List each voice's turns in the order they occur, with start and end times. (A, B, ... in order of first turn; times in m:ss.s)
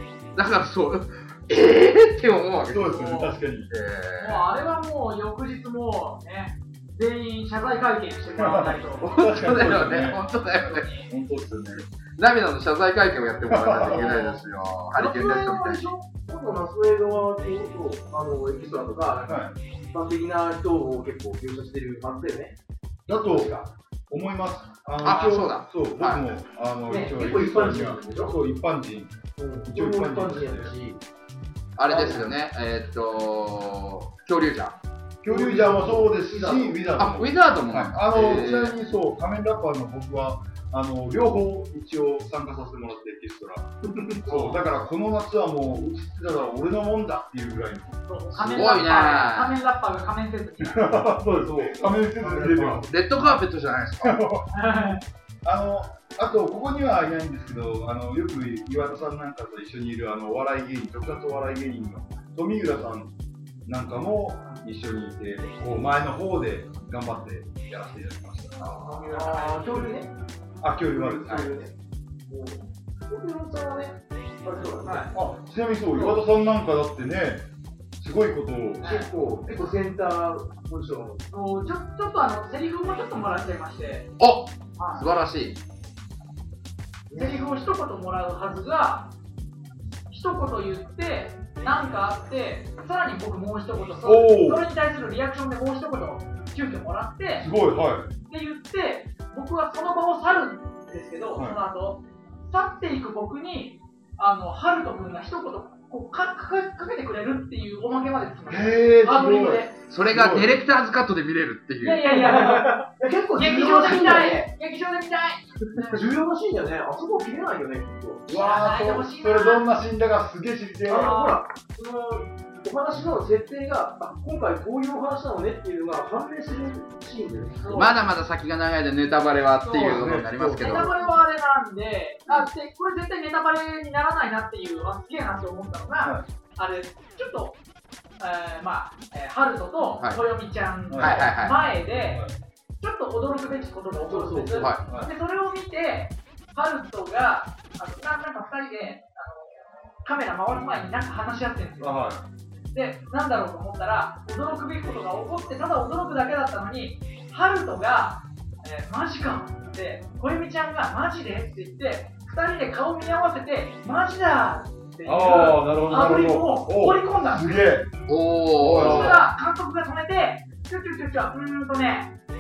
0:00.4-0:02.9 A
0:02.7-0:03.7 B
0:02.9-0:03.4 C
0:03.7-0:04.5 A
0:04.2-0:09.1 C
0:08.3-0:11.8 B
0:09.0-0:10.9 A
0:10.3-0:11.1 C
0:12.2-0:15.9 A
0:13.5-0:14.4 B
0:15.0-0:22.6 D
0:19.3-0:19.5 B
0:23.1-0:30.7 B
0:23.3-0:23.7 D
0:25.0-0:26.3 A
0:26.9-0:28.4 D
0:29.4-0:31.0 D
0:31.8-0:34.8 A
0:31.9-0:32.3 D
0:35.2-0:43.7 B
0:35.2-0:36.8 D
0:37.0-0:38.8 A
0:44.0-0:44.7 D
0:44.3-0:48.8 B
0:48.1-0:51.0 C
0:48.4-0:49.6 A
0:50.6-0:53.4 B
0:51.2-0:52.9 D
0:52.9-0:54.2 A
0:54.0-0:54.5 B
0:54.5-0:55.0 C
0:55.4-1:03.1 B
1:03.7-1:08.8 B
1:08.6-1:10.1 D
1:08.8-1:09.9 C
1:10.6-1:11.6 B
1:11.0-1:11.7 D
1:12.3-1:15.1 D
1:15.1-1:17.5 B
1:18.0-1:18.9 B
1:18.8-1:21.3 D
1:18.8-1:19.1 C
1:21.3-1:24.1 C
1:24.2-1:25.6 A
1:24.8-1:25.0 C
1:27.1-1:27.4 D
1:27.1-1:29.1 C
1:30.1-1:37.5 C
1:34.0-1:34.6 B
1:37.4-1:38.1 B
1:38.2-1:49.7 C
1:48.5-1:50.6 B
1:49.9-1:52.2 A
1:51.8-1:56.0 C
1:52.1-1:54.5 D
1:55.9-1:58.2 D
1:58.3-2:01.1 B
1:58.3-1:59.7 C
2:00.9-2:07.7 D
2:00.9-2:01.4 C
2:07.6-2:08.0 C
2:07.7-2:10.9 A
2:09.7-2:17.6 C
2:09.8-2:10.9 B
2:10.6-2:11.1 D
2:16.0-2:16.3 B
2:18.2-2:22.2 C
2:20.9-2:21.3 B
2:21.0-2:21.6 A
2:21.9-2:22.3 B
2:22.8-2:32.0 C
2:24.0-2:24.7 D
2:24.6-2:24.8 A
2:24.9-2:25.1 B
2:31.8-2:32.2 B
2:32.7-2:47.6 C
2:45.0-2:47.9 B
2:48.1-2:49.3 A
2:48.6-2:49.3 B
2:48.7-2:52.1 C